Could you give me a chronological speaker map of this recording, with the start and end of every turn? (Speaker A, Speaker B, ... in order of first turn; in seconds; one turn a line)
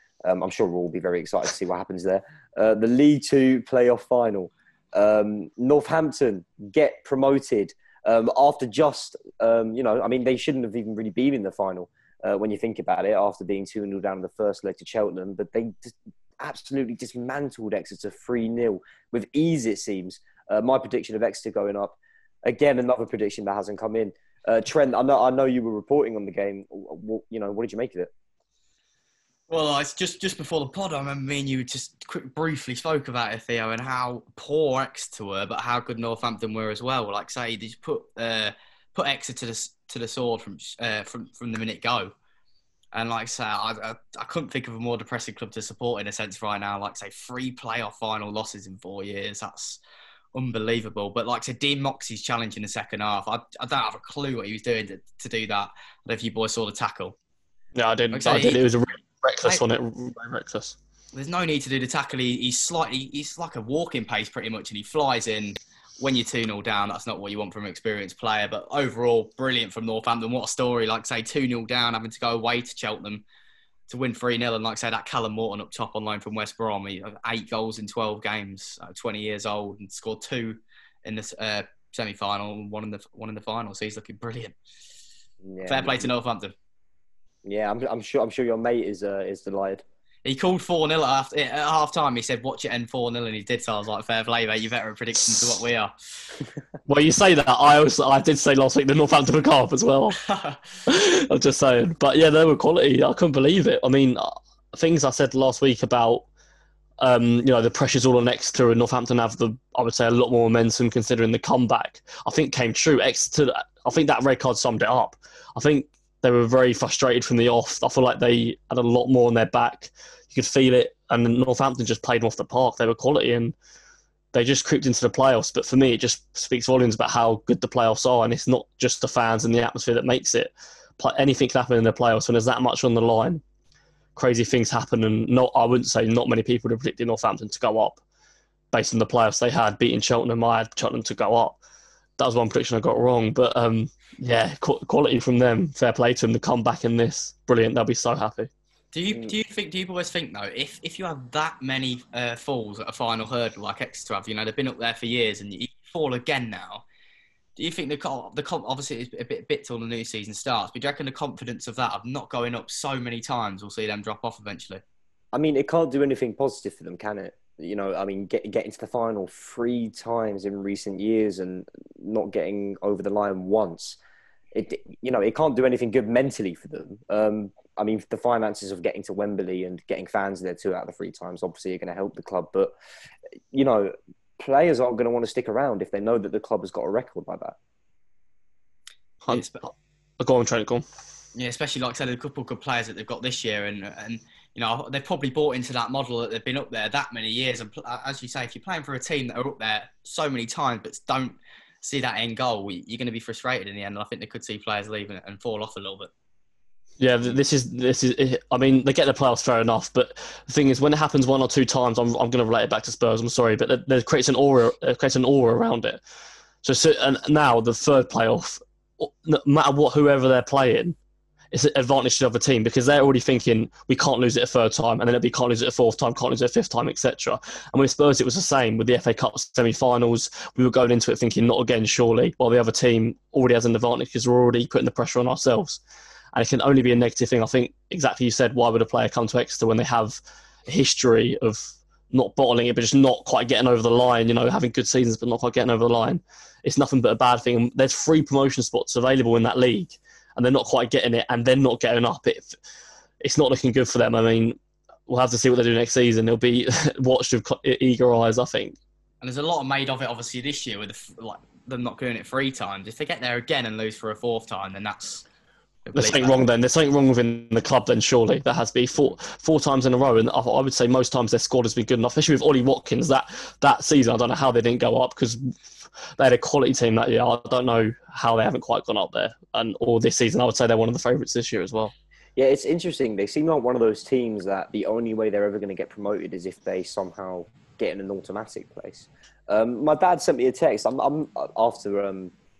Speaker A: 0.2-28.1
Speaker B: 29.5-42.1
Speaker B: 42.9-49.8
Speaker B: 50.3-57.1
Speaker C: 57.7-60.8
Speaker B: 58.1-58.6
Speaker B: 61.1-73.2
Speaker B: 73.9-84.5
Speaker A: 85.4-86.1
Speaker B: 85.7-86.5
Speaker A: 87.4-89.8
Speaker B: 90.2-95.9
Speaker C: 96.9-100.2
Speaker B: 100.2-100.6
Speaker C: 100.8-106.2
Speaker C: 107.0-123.5
Speaker C: 124.3-133.4
Speaker C: 134.2-138.0
Speaker C: 138.7-141.6
Speaker C: 142.2-148.5
Speaker B: 148.9-156.8
Speaker B: 157.6-164.8
Speaker A: 165.3-174.0
Speaker A: 174.5-182.7
Speaker A: 183.5-187.6
Speaker C: 189.2-189.7
Speaker B: 189.3-189.7
Speaker C: 190.2-190.8
Speaker B: 191.3-206.1
Speaker C: 207.0-216.0
Speaker C: 216.6-220.9
Speaker C: 221.5-235.8
Speaker C: 236.3-252.5
Speaker C: 253.2-258.8
Speaker B: 259.2-265.2
Speaker B: 265.9-266.4
Speaker C: 265.9-275.5
Speaker C: 276.2-281.9
Speaker A: 282.4-292.3